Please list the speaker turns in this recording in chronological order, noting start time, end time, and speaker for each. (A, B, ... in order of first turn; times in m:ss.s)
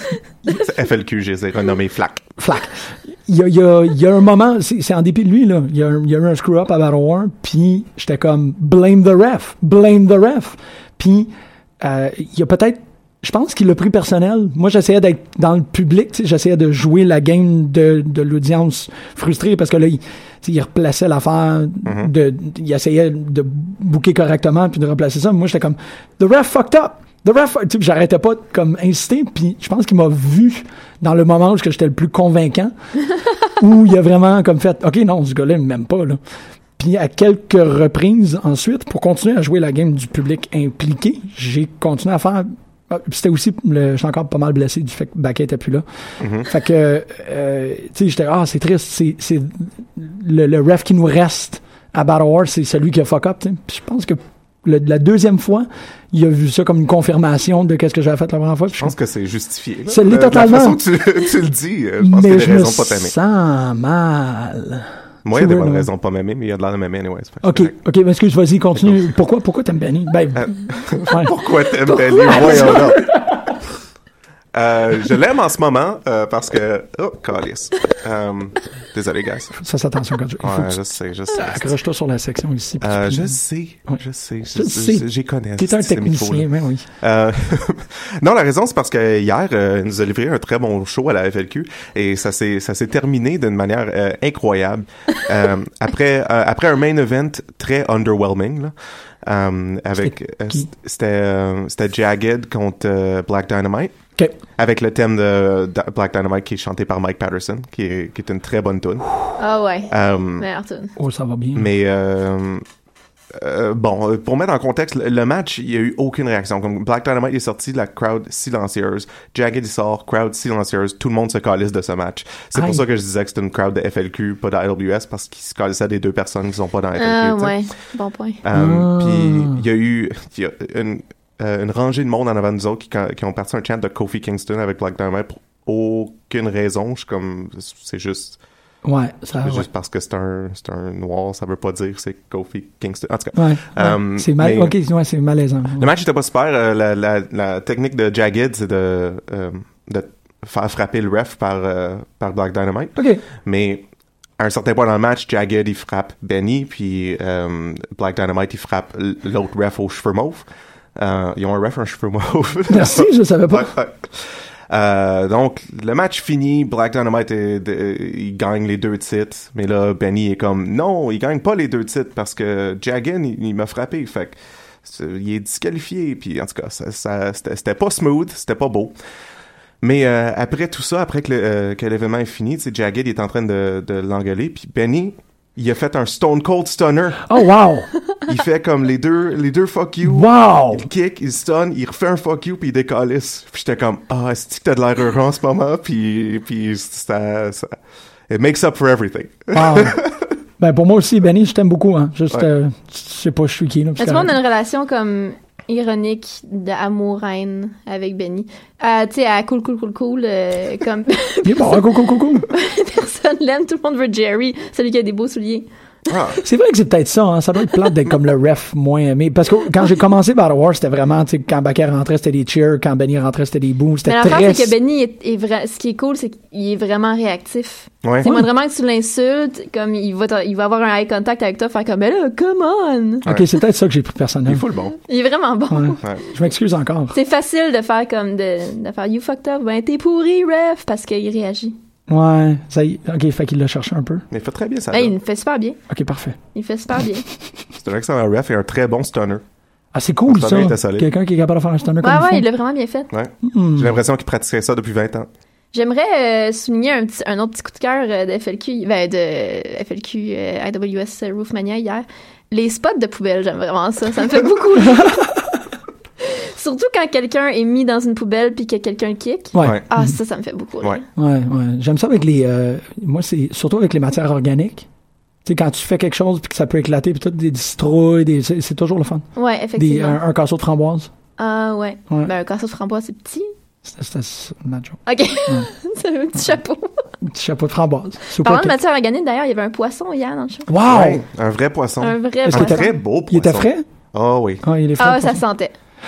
0:00.5-0:02.3 A
0:02.4-0:32.7 B
0:21.8-0:22.1 A
0:33.5-0:36.2 B
0:36.8-0:45.8 B
0:46.2-0:46.5 A
0:46.4-0:58.9 B
0:58.8-1:03.1 A
0:59.9-1:00.8 B
1:02.0-1:05.9 B
1:05.2-1:07.7 A
1:07.4-1:11.4 B
1:10.4-1:13.0 A
1:12.1-1:13.4 B
1:12.3-1:12.8 C
1:14.5-1:19.5 A
1:19.5-1:20.8 B
1:20.4-1:21.7 A
1:21.3-1:24.0 B
1:22.8-1:26.5 A
1:24.5-1:26.9 B
1:27.0-1:43.9 A
1:40.0-1:40.7 B
1:44.6-1:49.1 A
1:49.4-1:50.9 C
1:49.9-1:50.4 A
1:51.0-1:51.7 B
1:51.5-1:52.6 A
1:53.3-2:07.7 A
2:02.6-2:02.8 B
2:07.0-2:08.4 C
2:08.4-2:18.4 A
2:08.5-2:09.6 B
2:18.8-2:19.7 B
2:19.4-2:24.7 A
2:23.3-2:25.9 B
2:25.8-2:33.8 A
2:33.0-2:33.2 B
2:34.4-2:59.0 A
2:42.7-2:43.7 B
2:59.8-3:07.3 A
3:07.3-3:07.9 B
3:08.2-3:17.7 A
3:10.0-3:10.9 B
3:18.3-3:20.2 A
3:19.5-3:20.0 B
3:20.6-3:24.4 B
3:24.0-3:31.8 C
3:31.4-3:32.4 B
3:32.5-3:35.7 C
3:36.1-3:36.4 A
3:36.4-3:44.7 B
3:44.1-3:53.2 C
3:53.2-3:54.6 B
3:54.4-3:55.0 A
3:55.0-3:56.0 C
3:55.7-3:57.2 B
3:57.1-4:01.8 C
4:02.1-4:04.2 B
4:04.3-4:05.1 A
4:04.9-4:05.8 C
4:05.9-4:06.4 B
4:06.5-4:07.2 C
4:07.8-4:09.4 A
4:09.9-4:12.4 B
4:10.3-4:11.1 A
4:12.0-4:13.1 C
4:13.1-4:15.3 A
4:13.4-4:14.0 B
4:15.7-4:25.2 C
4:24.9-4:25.4 B
4:26.2-4:31.0 C
4:29.5-4:30.1 B
4:31.2-4:34.8 B
4:35.4-4:41.1 B
4:39.4-4:40.2 C
4:41.4-4:43.5 C
4:43.8-4:45.7 B
4:45.0-4:47.0 C
4:47.2-4:48.7 B
4:48.4-4:50.7 C
4:50.7-4:51.2 B
4:50.9-4:54.6 A
4:52.0-4:52.9 C
4:52.5-4:53.8 B
4:54.6-4:55.4 B
4:55.0-4:55.7 C